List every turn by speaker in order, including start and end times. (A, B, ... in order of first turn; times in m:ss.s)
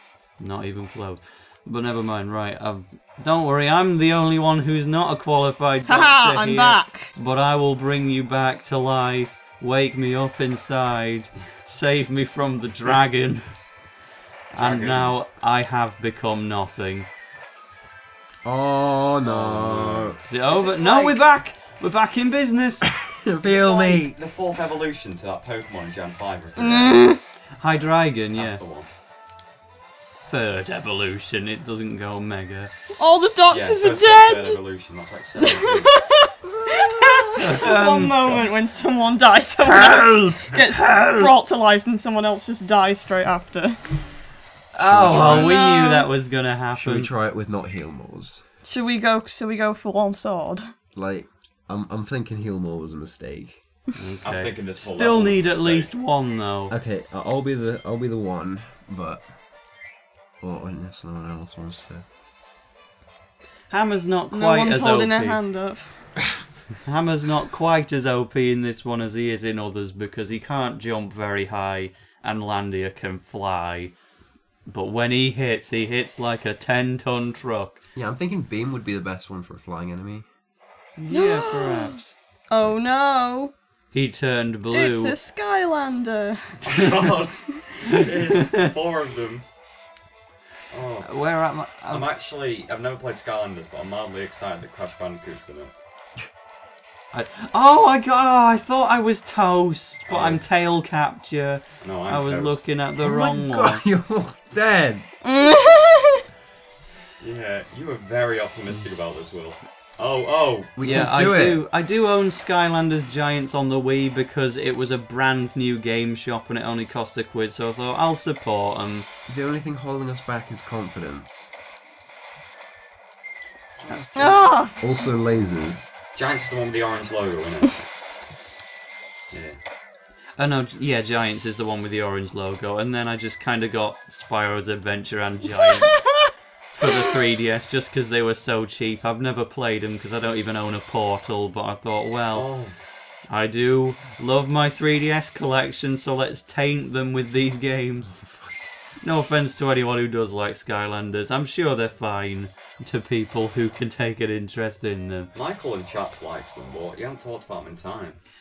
0:00.4-0:13.6 A
0:05.9-0:07.1 B
0:14.5-0:17.1 A
0:14.5-0:15.2 C
0:18.4-0:20.2 D
0:19.2-0:20.2 C
0:20.3-0:22.9 A
0:20.5-0:21.2 B
0:23.1-0:24.2 D
0:23.4-0:27.0 C
0:26.6-0:27.2 B
0:27.6-0:28.6 A
0:28.4-0:28.9 C
0:30.3-0:32.7 A
0:33.0-0:34.6 B
0:33.5-0:36.0 C
0:35.4-0:44.1 B
0:37.4-0:38.4 A
0:39.7-0:41.3 A
0:44.7-0:47.1 A
0:44.9-0:45.6 D
0:45.2-0:46.1 B
0:46.7-0:48.4 D
0:48.7-0:50.7 B
0:50.9-0:53.6 D
0:54.0-0:56.7 A
0:54.2-0:55.9 C
0:56.7-0:59.3 D
1:00.4-1:02.0 D
1:03.7-1:05.4 A
1:04.3-1:06.1 B
1:06.8-1:14.0 A
1:14.7-1:17.8 A
1:18.0-1:20.3 D
1:21.0-1:22.2 A
1:21.1-1:22.0 B
1:22.5-1:23.5 B
1:23.9-1:25.2 A
1:24.7-1:26.6 B
1:26.6-1:29.4 C
1:30.7-1:31.1 C
1:31.0-1:32.1 A
1:31.9-1:35.7 C
1:37.1-1:43.8 A
1:40.1-1:40.4 C
1:41.8-1:42.6 C
1:43.0-1:45.1 D
1:45.2-1:46.2 B
1:47.2-1:51.0 C
1:50.8-1:51.6 D
1:50.8-1:59.1 A
1:59.3-2:01.5 D
2:03.8-2:04.5 C
2:04.2-2:04.8 B
2:04.8-2:05.9 D
2:06.1-2:07.9 C
2:09.3-2:09.6 C
2:10.4-2:22.5 A
2:22.3-2:22.8 C
2:23.3-2:28.2 A
2:28.1-2:28.7 D
2:29.0-2:35.3 A
2:35.3-2:38.2 C